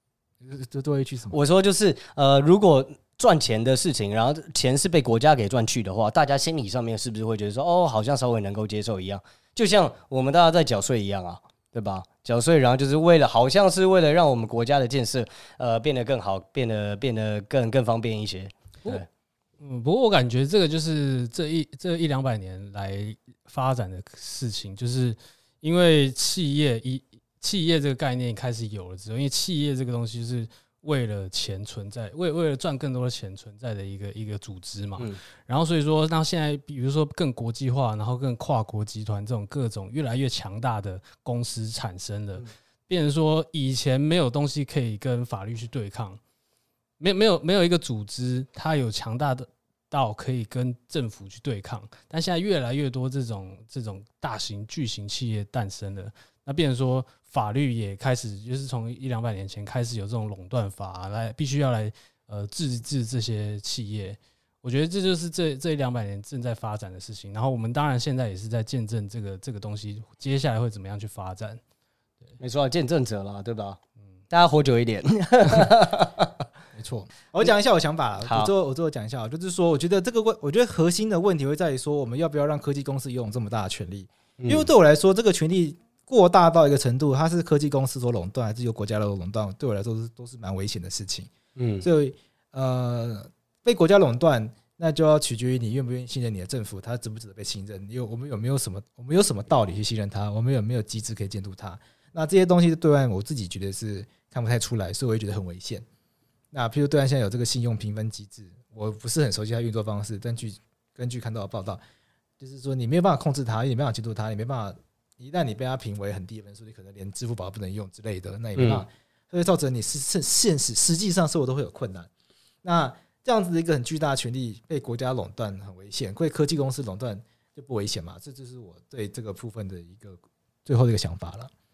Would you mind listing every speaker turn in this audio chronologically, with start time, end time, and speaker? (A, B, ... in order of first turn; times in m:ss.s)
0:00.4-0:01.4 A
0:01.3-0:19.0 B
0:19.6-0:46.2 C
0:47.0-1:11.6 C
1:12.4-1:13.8 B
1:14.3-1:16.3 B
1:16.8-1:45.8 A
1:18.2-1:18.5 B
1:24.4-1:24.7 B
1:31.6-1:31.9 B
1:46.5-1:51.8 A
1:52.4-2:02.1 A
1:58.6-1:58.8 B
2:02.6-2:11.5 A